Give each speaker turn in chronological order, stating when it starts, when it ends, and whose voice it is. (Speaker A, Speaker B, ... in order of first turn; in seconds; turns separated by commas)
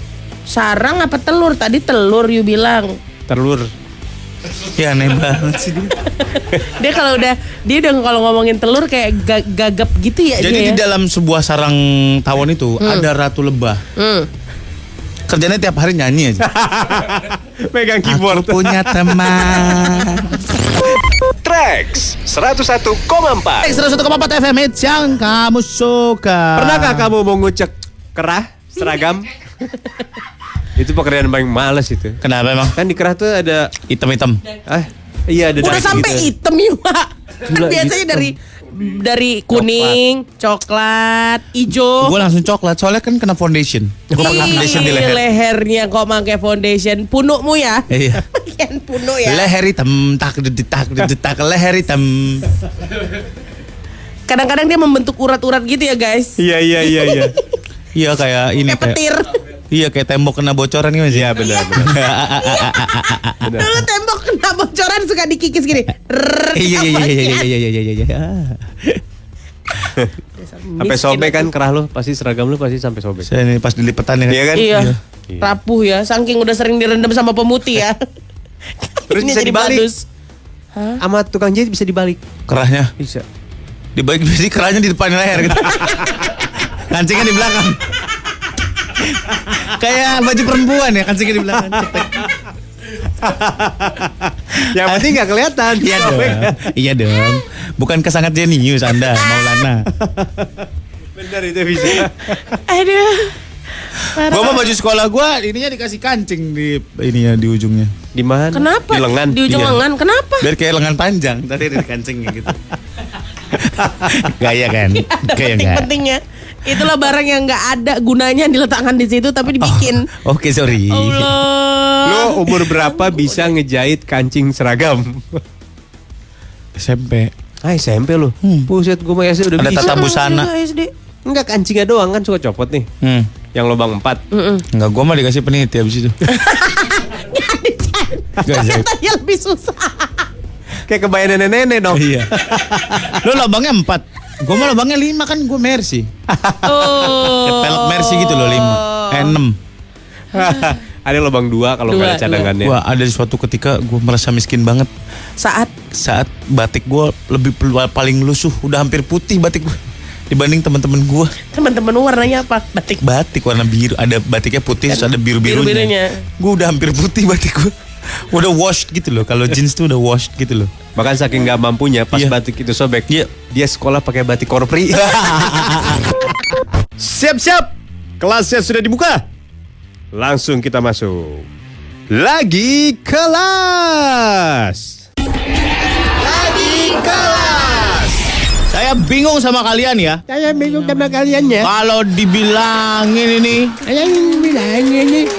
Speaker A: 0.5-3.0, Speaker B: 3.3-3.7, Speaker C: 4.7-6.0, Speaker A: 6.1-10.8, Speaker C: 10.4-13.8, Speaker A: 12.8-13.1, Speaker A: 14.0-14.3, Speaker C: 15.3-16.5, Speaker B: 16.4-19.9, Speaker C: 18.1-20.5, Speaker B: 21.4-23.8, Speaker C: 23.6-27.1, Speaker B: 26.6-29.3, Speaker B: 30.8-32.2, Speaker C: 32.2-32.8, Speaker B: 32.7-33.7, Speaker C: 33.9-34.4, Speaker B: 34.7-36.3, Speaker A: 35.6-42.2, Speaker C: 35.6-36.1, Speaker B: 37.5-38.3, Speaker C: 39.6-39.9, Speaker C: 42.0-45.2, Speaker B: 44.1-45.0, Speaker A: 44.2-49.5, Speaker C: 47.9-48.2, Speaker C: 49.2-52.5, Speaker A: 54.3-57.4, Speaker B: 56.4-57.4, Speaker C: 57.9-59.0, Speaker A: 58.6-59.4, Speaker C: 59.7-63.6, Speaker B: 61.1-62.0, Speaker A: 62.3-67.5, Speaker B: 63.4-63.7, Speaker C: 66.5-69.0, Speaker A: 70.4-71.5, Speaker B: 70.8-73.3, Speaker C: 73.3-75.0, Speaker B: 74.3-75.5, Speaker A: 74.5-78.0, Speaker A: 78.8-80.0, Speaker B: 79.1-79.9, Speaker A: 80.7-81.0, Speaker B: 81.0-82.2, Speaker C: 82.5-82.9, Speaker C: 83.9-86.1, Speaker C: 86.7-88.0, Speaker C: 89.0-92.2, Speaker B: 91.7-92.3, Speaker B: 93.2-96.7, Speaker C: 94.8-95.2, Speaker C: 95.8-99.8, Speaker A: 99.2-99.6, Speaker B: 100.0-100.6, Speaker B: 101.2-102.4, Speaker A: 101.9-103.3, Speaker A: 103.8-104.6, Speaker C: 104.2-107.9, Speaker B: 108.1-109.4, Speaker A: 108.5-110.5, Speaker C: 109.5-109.8, Speaker C: 110.4-112.6, Speaker C: 113.5-115.9, Speaker A: 114.9-120.0, Speaker C: 119.6-121.3, Speaker A: 120.9-123.5, Speaker B: 122.0-125.4, Speaker C: 126.8-127.3, Speaker B: 127.6-130.0, Speaker C: 128.4-128.7, Speaker C: 129.6-130.5, Speaker A: 129.8-130.9, Speaker B: 131.2-132.9, Speaker C: 133.0-133.3, Speaker B: 133.5-134.2, Speaker A: 134.3-134.6, Speaker C: 134.7-136.2, Speaker A: 136.2-140.2, Speaker C: 138.4-138.8, Speaker B: 140.9-143.2, Speaker C: 141.9-142.3, Speaker C: 143.2-146.1, Speaker B: 146.3-147.2, Speaker A: 146.6-149.4, Speaker C: 147.3-149.6, Speaker B: 150.3-152.8, Speaker A: 151.9-152.5, Speaker C: 152.6-154.9, Speaker A: 155.4-155.7, Speaker C: 155.9-161.3, Speaker A: 161.5-163.0, Speaker C: 163.0-170.7, Speaker A: 164.9-166.2, Speaker B: 170.9-175.8, Speaker C: 175.0-176.0, Speaker B: 177.0-179.2, Speaker B: 180.1-181.4, Speaker B: 182.1-185.0, Speaker B: 186.2-188.2, Speaker C: 188.7-190.2, Speaker B: 190.3-191.7, Speaker C: 191.6-193.8, Speaker B: 193.9-195.3, Speaker A: 194.2-194.6